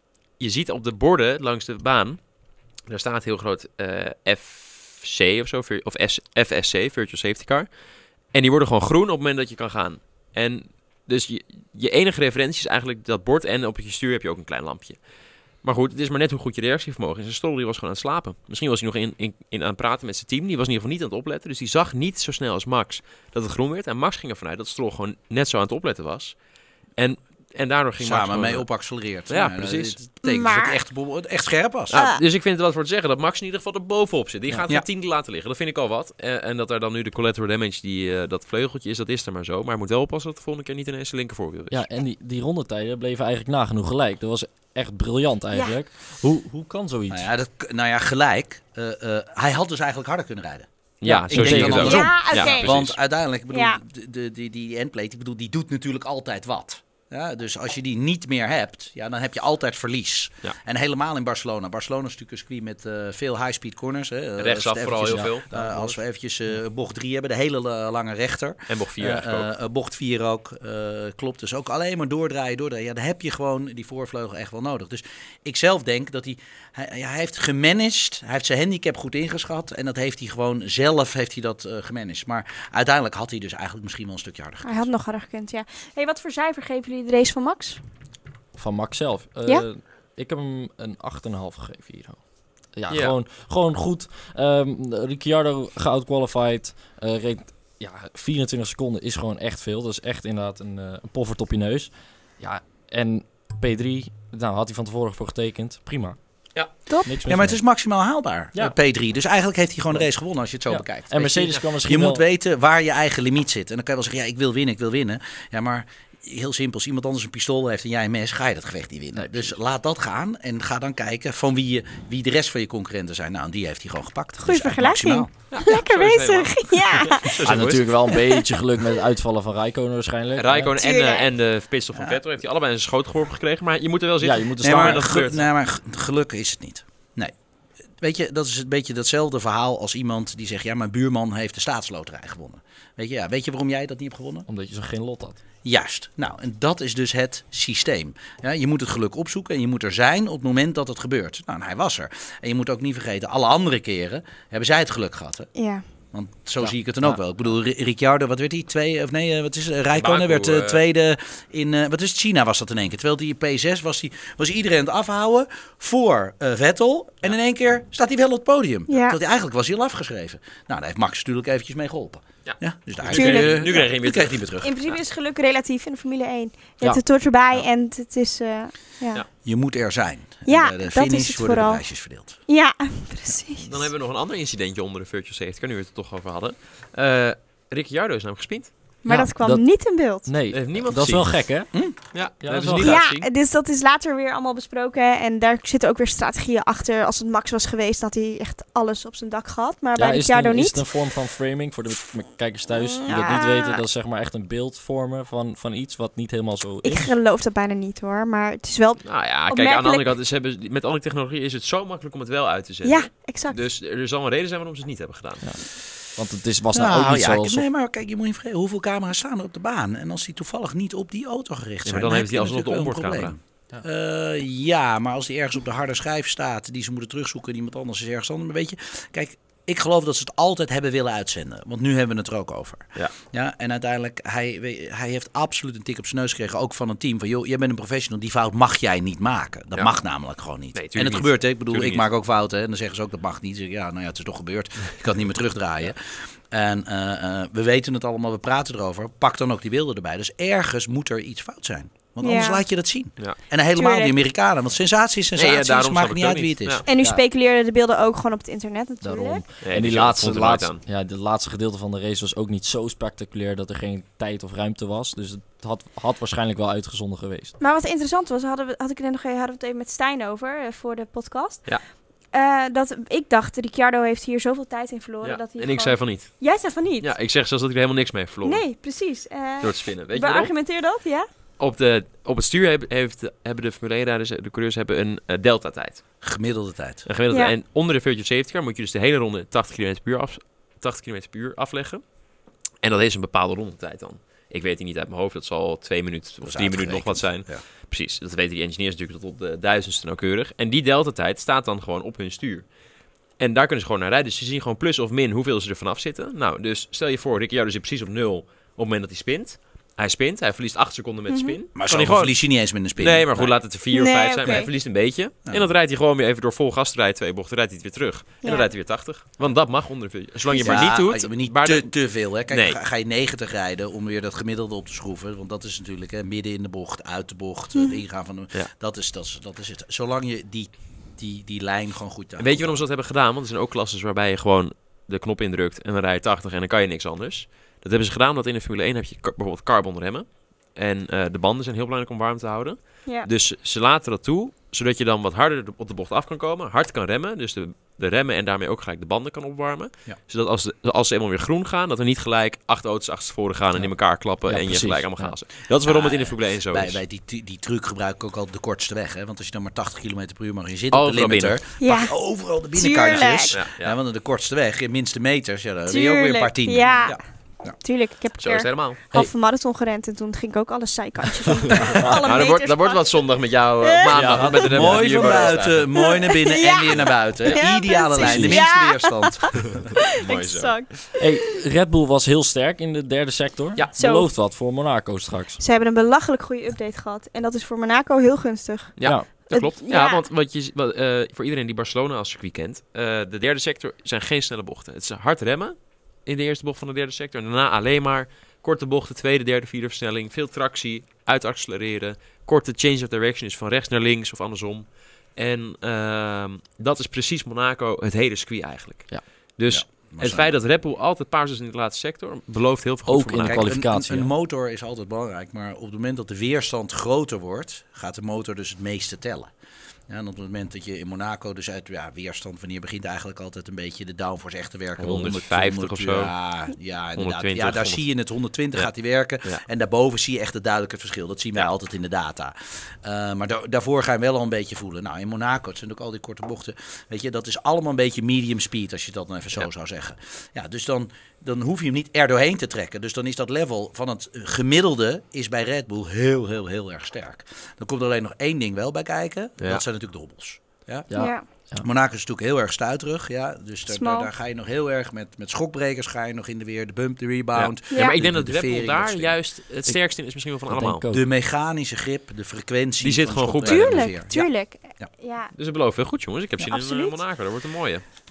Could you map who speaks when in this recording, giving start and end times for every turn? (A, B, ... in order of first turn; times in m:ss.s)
0:00.4-0:02.2 A
0:02.9-0:07.7 A
0:08.3-0:15.0 A
0:15.6-0:26.4 A
0:27.0-0:28.7 A
0:28.0-0:32.0 B
0:29.3-0:30.0 A
0:30.2-0:30.8 C
0:31.9-0:41.9 A
0:31.9-0:32.2 C
0:41.7-0:47.3 D
0:47.1-1:24.9 B
0:51.0-0:53.0 A
0:51.0-0:52.1 D
0:51.8-0:52.7 C
0:53.5-0:53.8 C
1:04.4-1:05.9 A
1:05.0-1:05.7 D
1:08.7-1:09.5 A
1:24.6-1:27.8 C
1:28.6-1:46.2 D
1:32.9-1:33.2 A
1:47.0-1:47.6 D
1:47.3-2:05.3 B
1:50.7-1:52.2 D
1:59.2-1:59.6 D
2:04.4-2:07.4 C
2:05.5-2:08.1 A
2:07.4-2:10.8 D
2:08.1-2:08.4 C
2:10.4-2:15.4 A
2:10.8-2:11.3 C
2:14.2-2:15.2 D
2:14.6-2:17.3 B
2:18.0-2:24.5 B
2:24.5-2:25.4 D
2:25.6-2:35.5 B
2:35.6-2:35.8 C
2:36.1-2:54.7 B
2:36.6-2:37.2 D
2:40.0-2:40.8 A
2:48.9-2:49.2 C
2:52.5-2:55.0 A
2:53.1-2:53.7 C
2:54.6-2:59.2 C
2:59.4-3:02.4 B
3:00.5-3:01.8 C
3:02.5-3:03.9 C
3:03.6-3:08.7 A
3:09.0-3:10.4 C
3:09.1-3:09.6 D
3:10.2-3:11.7 D
3:10.5-3:11.5 A
3:12.1-3:13.3 A
3:12.4-3:13.0 D
3:12.8-3:20.8 C
3:20.0-3:27.1 D
3:22.7-3:23.8 C
3:26.8-3:30.2 C
3:29.0-3:35.5 A
3:32.8-3:33.6 C
3:36.2-3:37.6 D
3:36.7-4:16.8 B
3:41.8-3:43.3 A
4:00.7-4:02.1 A
4:12.2-4:12.6 C
4:13.8-4:14.2 C
4:15.4-4:16.8 A
4:16.9-4:19.4 C
4:19.0-4:27.6 D
4:19.6-4:20.8 A
4:27.6-4:31.8 C
4:32.3-4:37.1 C
4:35.2-4:36.4 A
4:37.0-4:38.7 A
4:38.4-4:41.3 C
4:39.6-4:40.5 A
4:41.6-4:46.0 A
4:46.2-4:47.1 B
4:47.1-4:52.1 A
4:52.8-5:02.7 A
4:56.4-4:57.6 B
5:03.4-5:12.4 A
5:11.3-5:11.6 C
5:11.8-5:13.6 B
5:13.0-5:22.0 A
5:13.9-5:14.7 C
5:15.5-5:15.7 B
5:18.4-5:18.7 C
5:20.5-5:20.9 C
5:20.6-5:32.8 B
5:22.5-5:22.8 A
5:27.8-5:28.0 C
5:32.4-5:57.0 A
5:53.8-5:55.4 D
5:55.8-6:07.8 B
6:00.9-6:01.6 A
6:01.8-6:02.2 C
6:02.7-6:03.6 C
6:03.5-6:04.0 A
6:05.9-6:07.2 C
6:06.8-6:07.1 A
6:07.8-6:13.2 C
6:08.4-6:09.0 A
6:11.7-6:16.0 A
6:11.7-6:12.0 B
6:13.8-6:14.7 C
6:14.1-6:15.2 D
6:14.6-6:20.0 B
6:15.9-6:19.5 C
6:18.2-6:18.6 D
6:20.1-6:20.8 A
6:20.3-6:21.5 C
6:21.2-6:25.6 D
6:24.0-6:24.3 C
6:25.6-6:30.2 C
6:29.0-6:53.7 A
6:49.7-6:50.6 B
6:53.1-6:54.3 D
6:53.5-6:59.5 B
7:00.1-7:31.1 B
7:05.0-7:06.3 A
7:07.2-7:08.0 A
7:31.1-7:31.8 D
7:31.2-7:31.4 C
7:31.8-7:39.4 B
7:33.9-7:34.3 C
7:37.6-7:41.0 A
7:40.7-7:41.2 D
7:41.1-7:45.1 B
7:43.0-7:44.1 A
7:43.6-7:45.5 C
7:45.6-7:48.0 A
7:46.6-7:47.2 C